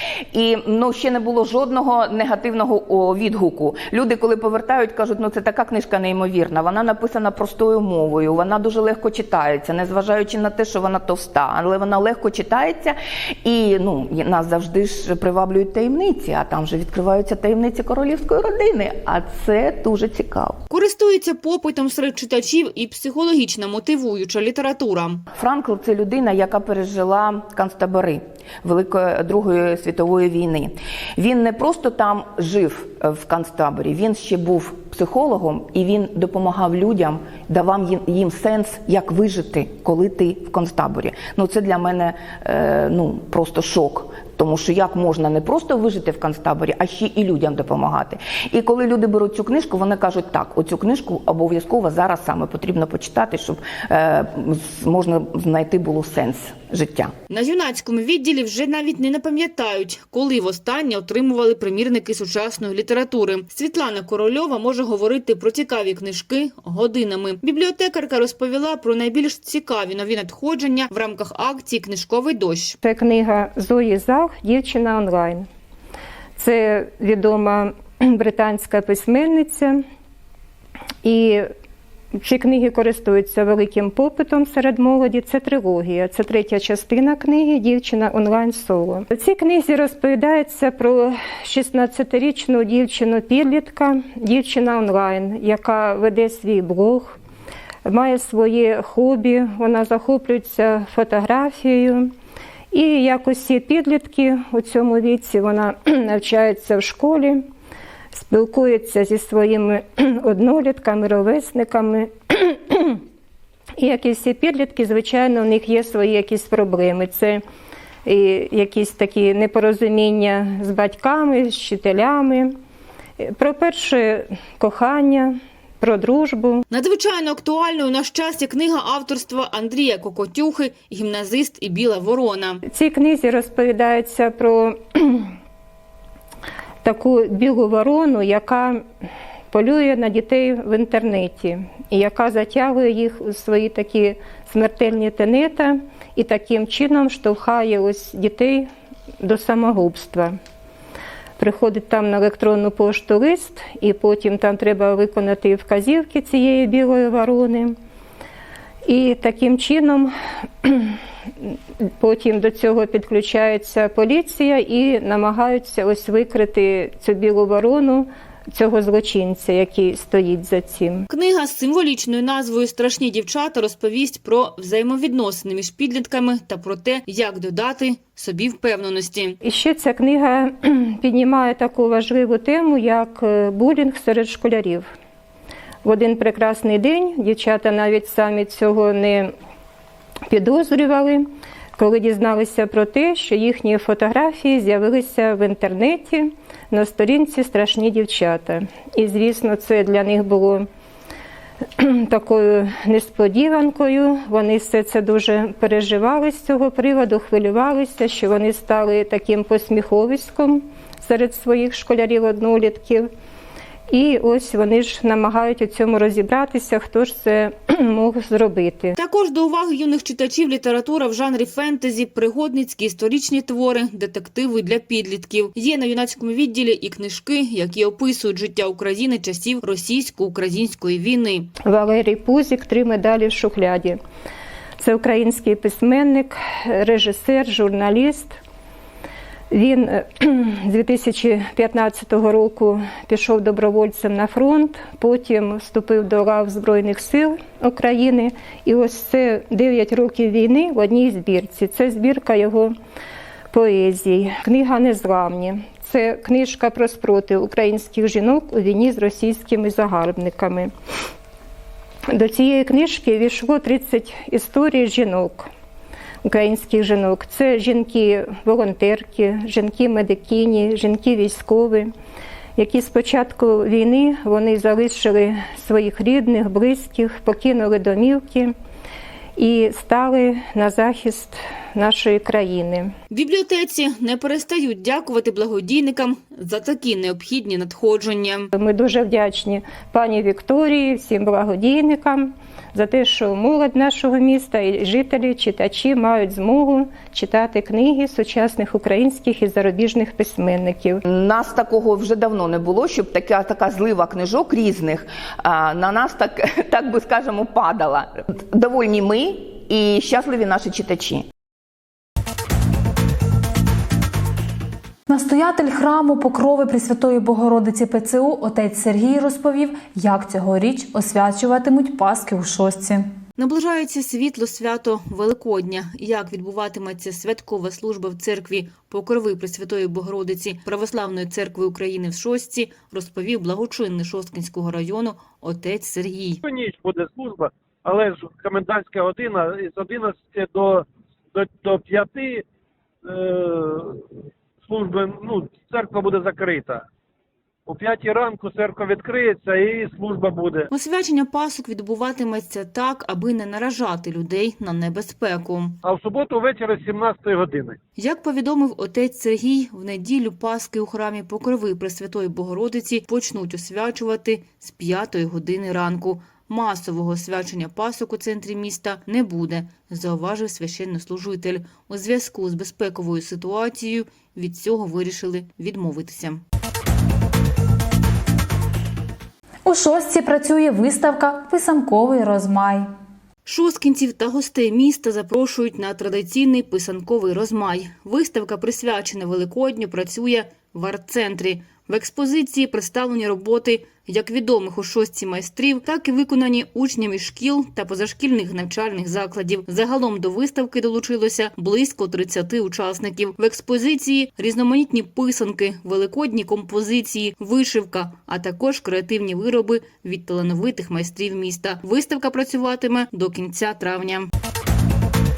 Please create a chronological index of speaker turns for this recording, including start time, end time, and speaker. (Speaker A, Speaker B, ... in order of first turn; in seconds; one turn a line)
Speaker A: 0.3-20.6
Speaker B: 20.7-25.2
Speaker A: 25.4-57.1
Speaker B: 57.3-72.8
Speaker C: 72.8-75.5
Speaker C: 76.4-79.8
Speaker C: 81.0-81.5
Speaker C: 82.2-97.2
Speaker C: 97.8-102.1
Speaker C: 102.7-107.5
Speaker C: 108.1-113.0
Speaker C: 113.8-117.4
Speaker C: 118.1-122.6
Speaker C: 123.2-126.6
Speaker B: 126.7-132.6
Speaker C: 132.7-135.3
Speaker C: 136.8-138.8
Speaker C: 139.5-148.7
Speaker C: 149.2-150.4
Speaker C: 151.4-157.8
Speaker C: 158.9-171.1
Speaker B: 171.1-179.4
Speaker C: 179.4-184.9
Speaker C: 185.8-189.3
Speaker C: 190.3-200.7
Speaker C: 201.8-213.1
Speaker C: 213.9-218.9
Speaker B: 219.0-231.5
Speaker C: 231.6-234.0
Speaker C: 234.8-238.4
Speaker C: 239.5-252.7
Speaker C: 253.5-260.7
Speaker C: 262.1-265.5
Speaker C: 266.2-271.9
Speaker C: 272.6-278.5
Speaker C: 279.4-282.9
Speaker B: 283.1-288.5
Speaker C: 288.5-301.0
Speaker A: 301.1-311.2
Speaker D: 315.1-323.1
Speaker B: 323.4-336.4
Speaker E: 336.4-342.5
Speaker E: 343.0-344.0
Speaker E: 344.6-346.9
Speaker E: 347.6-350.7
Speaker B: 350.7-355.8
Speaker E: 355.8-357.8
Speaker B: 358.0-376.4
Speaker D: 379.6-382.9
Speaker B: 383.4-414.3